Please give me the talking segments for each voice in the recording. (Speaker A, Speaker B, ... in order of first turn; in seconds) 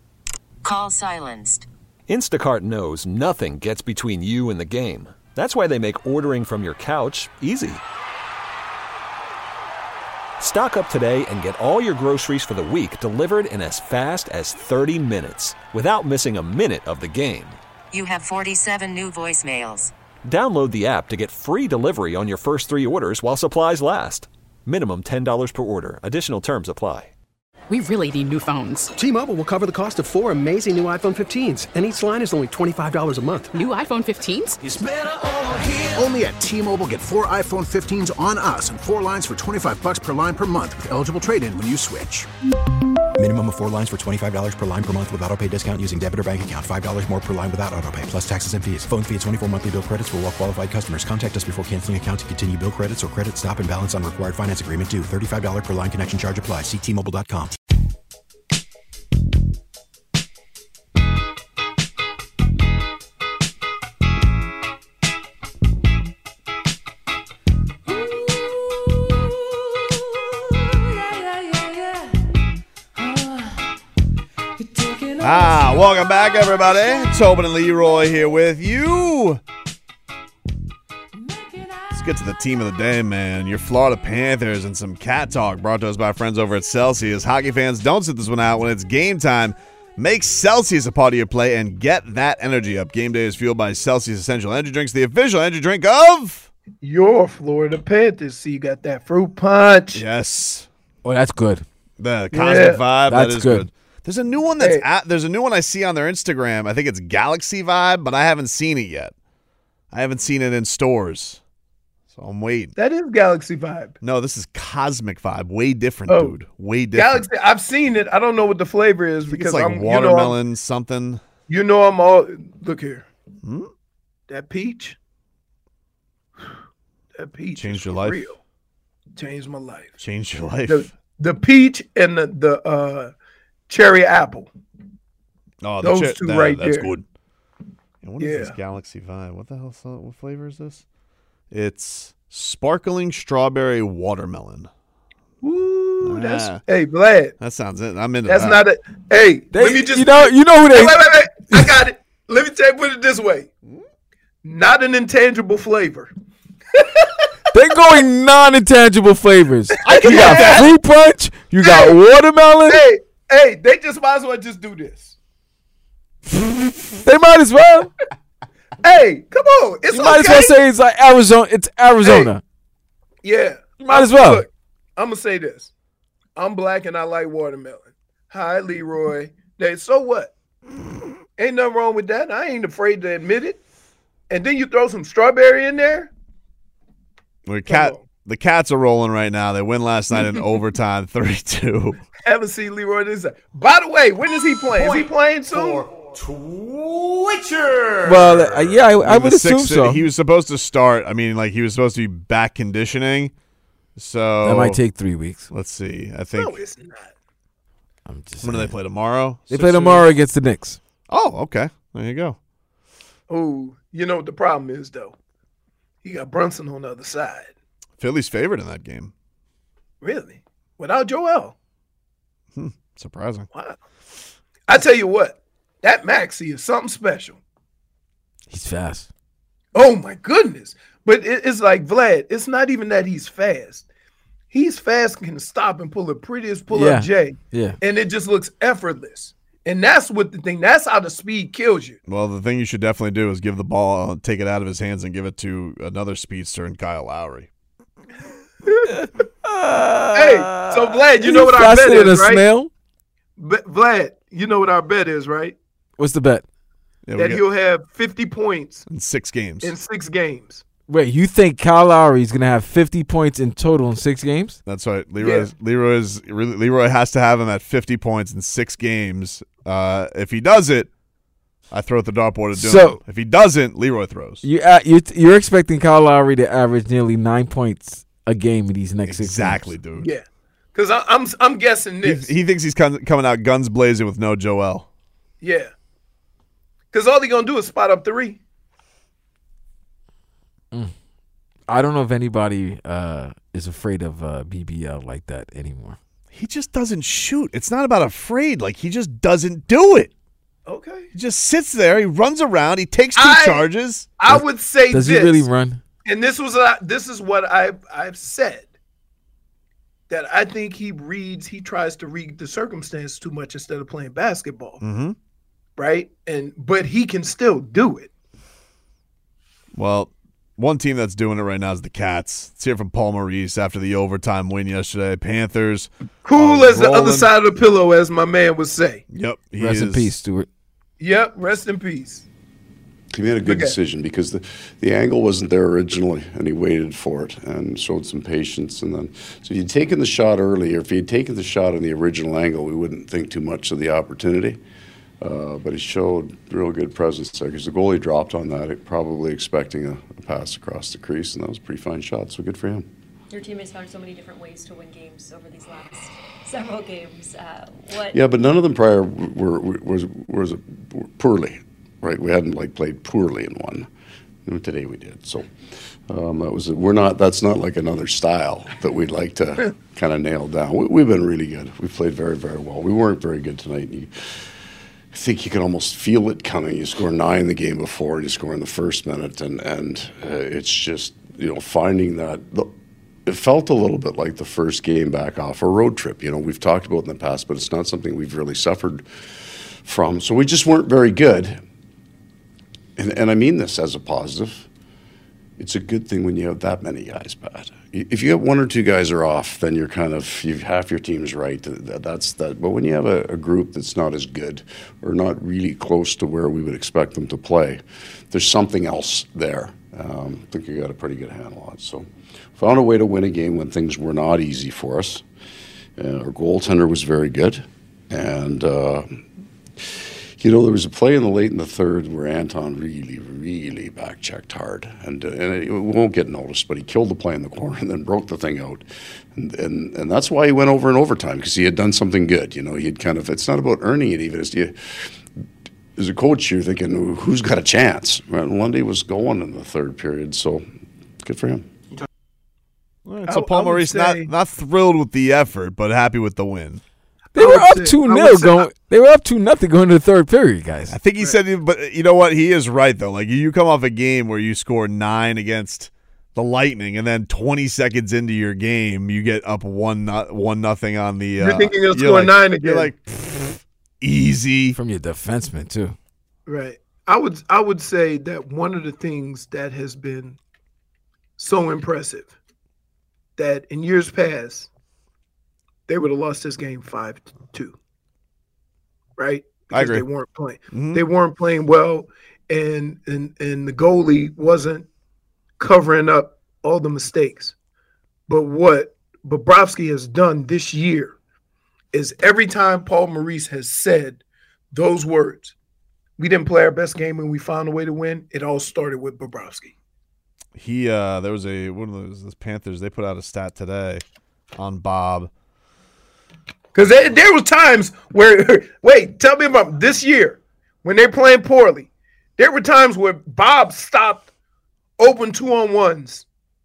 Speaker A: 0.6-1.6, 17.9-19.9
Speaker B: 2.1-7.8, 10.4-17.6, 20.2-27.1
Speaker C: 27.7-28.9, 33.5-34.6
Speaker D: 29.0-33.5
Speaker E: 34.6-42.3, 74.8-75.1
Speaker F: 43.2-57.6
Speaker G: 75.2-79.4, 81.9-96.5, 99.9-100.7, 102.0-109.1, 109.9-111.4, 112.1-112.7, 114.0-117.2, 119.3-121.2, 123.4-123.7, 127.5-128.2, 130.0-130.9, 135.6-137.0, 138.0-140.8, 141.5-144.7, 146.0-146.6, 147.4-148.6, 160.0-160.6, 187.5-192.0, 195.6-203.3, 203.9-204.8, 205.5-206.6, 208.4-210.0, 211.1-212.4, 218.0-219.1, 222.5-223.5, 242.1-247.5, 257.0-257.4, 258.9-259.7, 264.7-270.9, 271.7-274.4, 279.1-280.1, 282.0-284.9, 296.3-300.1, 301.1-304.1, 314.8-315.1, 319.7-327.3, 329.1-330.1, 443.1-446.8, 450.9-464.8, 479.7-480.0, 480.7-481.0, 500.5-504.0, 504.6-505.3
Speaker H: 96.8-100.0, 102.3-102.8, 112.8-114.0, 116.1-116.3, 116.9-120.4, 121.5-123.0, 124.3-125.0, 127.2-128.4, 129.2-129.9, 130.7-133.1, 133.7-134.5, 135.8-136.9, 138.2-138.6, 145.4-147.3, 148.2-153.5, 154.4-156.1, 156.7-157.3, 159.8-160.7, 161.6-161.9, 162.7-165.2, 168.8-170.5, 172.0-172.3, 173.2-175.7, 176.3-180.3, 181.4-183.6, 184.3-186.1, 187.7-188.0, 192.2-195.9, 206.3-207.1, 213.3-215.1, 216.0-217.5, 220.0-221.5, 224.7-227.4, 229.7-233.8, 234.5-242.0, 250.1-252.4, 253.4-255.6, 257.1-258.9, 259.6-260.6, 265.2-265.5, 280.0-282.3, 285.4-285.7, 286.9-288.4, 300.6-301.1, 303.1-303.6, 304.2-305.5, 306.0-308.7, 310.1-314.8, 315.8-318.1, 326.2-329.0, 331.0-332.2, 333.4-333.8, 443.3-444.3, 447.4-448.7, 461.4-462.9, 466.5-470.4, 471.4-472.3, 473.4-474.7, 475.9-477.7, 479.2-484.9, 485.6-487.5, 488.3-491.1, 491.9-494.2, 494.7-495.5, 496.2-499.7, 506.7-514.3, 515.0-516.2
Speaker I: 101.0-101.6, 103.1-103.7, 149.5-151.7, 157.5-162.8, 166.3-167.9, 169.9-172.4, 173.8-174.4, 198.0-200.0, 204.4-205.5, 208.1-208.8, 209.5-210.8, 228.5-229.1, 236.7-237.8, 248.9-252.7, 256.0-256.4, 260.9-264.6, 272.5-273.0, 274.4-279.6, 291.7-296.0, 304.3-305.8, 329.6-330.5, 447.3-451.0, 464.7-465.9
Speaker J: 333.1-344.6, 345.2-352.9, 358.1-363.9, 364.4-365.5, 366.1-374.4, 375.1-382.7, 383.2-389.0, 389.8-391.6, 392.9-394.7, 395.6-415.2, 416.0-419.2, 419.8-435.1, 435.9-440.6, 441.2-441.6
Speaker K: 353.3-358.2